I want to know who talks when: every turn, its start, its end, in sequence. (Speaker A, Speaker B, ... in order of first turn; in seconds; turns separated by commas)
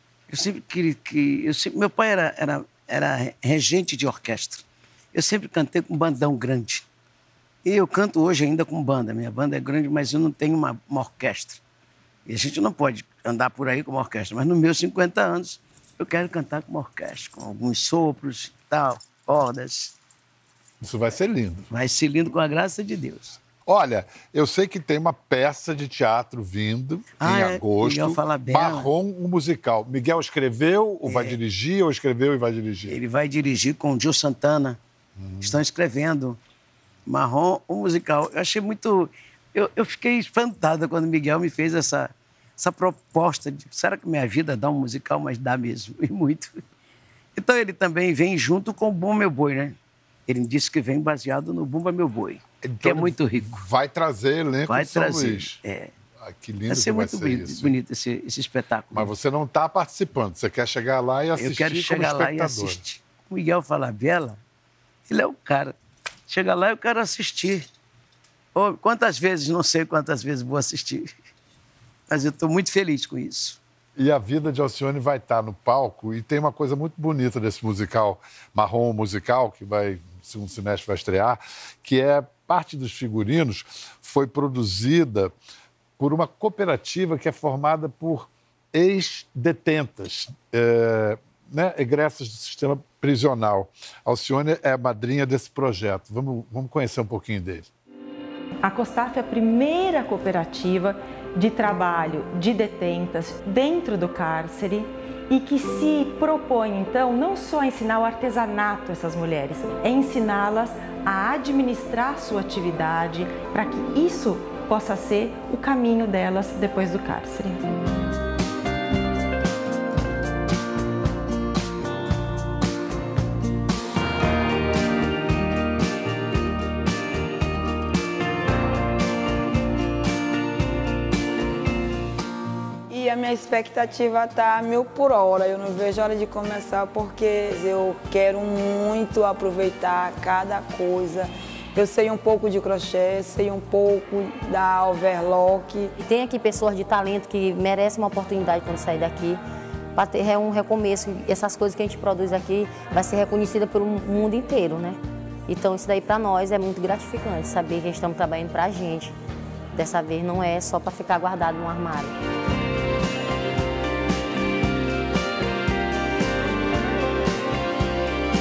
Speaker A: 0.3-6.8, Speaker A: 7.6-11.6, Speaker A: 12.3-19.9, Speaker B: 20.8-21.7, Speaker A: 21.7-23.4, Speaker B: 23.6-33.0, Speaker A: 27.2-28.9, Speaker A: 31.0-31.4, Speaker A: 32.9-34.8, Speaker B: 35.2-35.6, Speaker A: 35.4-36.4, Speaker A: 37.0-46.6, Speaker A: 47.3-49.8, Speaker A: 50.3-53.6, Speaker B: 52.6-55.6, Speaker A: 54.7-55.9, Speaker B: 56.2-57.7, Speaker A: 56.7-59.1, Speaker B: 58.9-62.8, Speaker A: 61.4-64.4, Speaker A: 65.1-65.7, Speaker A: 66.3-67.7, Speaker A: 68.5-71.1, Speaker A: 72.1-73.6, Speaker B: 74.0-85.3, Speaker B: 86.0-97.7, Speaker C: 98.6-117.6, Speaker D: 132.9-145.9, Speaker E: 146.0-149.4, Speaker E: 149.9-159.1, Speaker E: 159.7-162.2